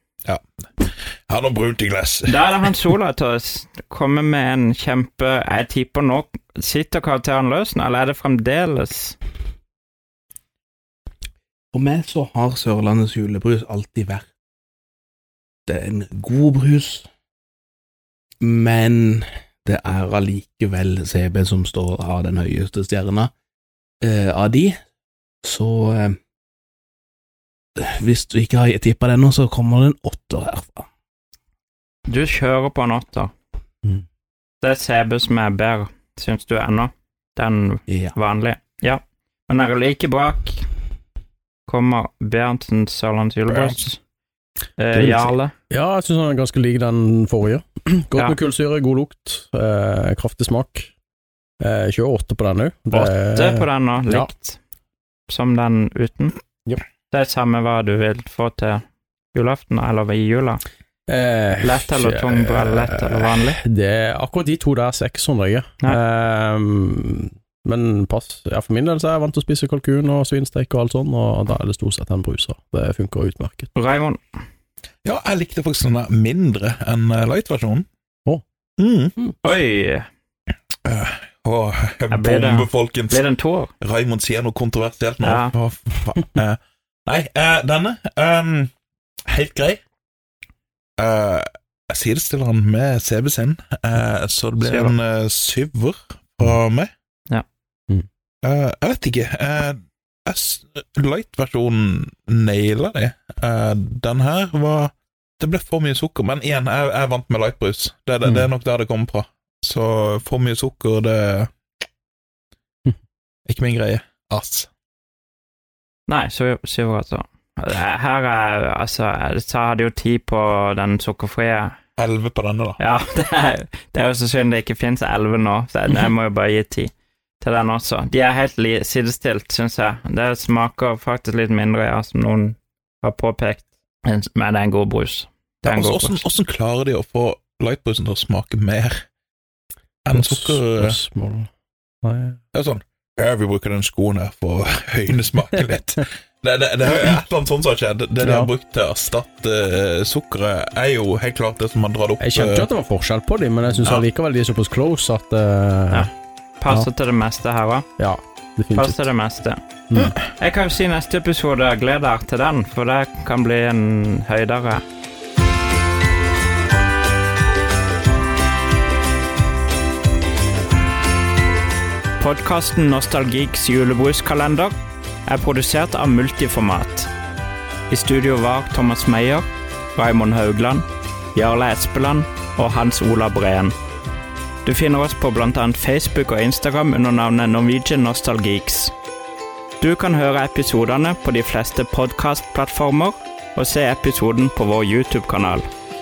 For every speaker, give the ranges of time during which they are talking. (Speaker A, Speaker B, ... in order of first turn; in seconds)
Speaker A: 0.2-2.8, 43.5-43.8, 75.0-77.9, 78.8-79.1, 80.8-83.2, 83.8-88.7, 89.3-89.8, 91.0-96.9, 98.4-111.5, 113.5-114.7, 122.0-122.8, 135.6-139.0, 140.0-141.0, 142.5-152.7, 153.6-154.1
Speaker B: 2.3-9.2, 32.1-33.3, 34.6-40.6, 41.7-44.0, 44.8-45.5, 52.9-54.6, 55.3-56.3, 57.1-58.8, 59.3-60.6, 61.6-63.6, 73.7-74.2, 79.4-80.0, 82.1-83.7, 85.2-85.5, 94.6-94.9, 116.1-121.7, 122.8-136.2, 156.6-157.9, 158.7-159.6, 160.3-164.8, 172.2-174.7, 175.3-177.1, 177.9-183.7, 184.6-188.9, 189.8-195.7
Speaker C: 11.7-14.3, 15.7-17.1, 18.4-23.3, 24.0-24.8, 25.4-26.2, 27.8-30.9, 37.9-38.1
Speaker D: 44.9-50.9, 51.6-54.3, 61.1-73.7, 140.1-141.5, 142.0-142.4, 148.2-148.5, 152.2-156.1, 158.0-159.1, 159.9-160.2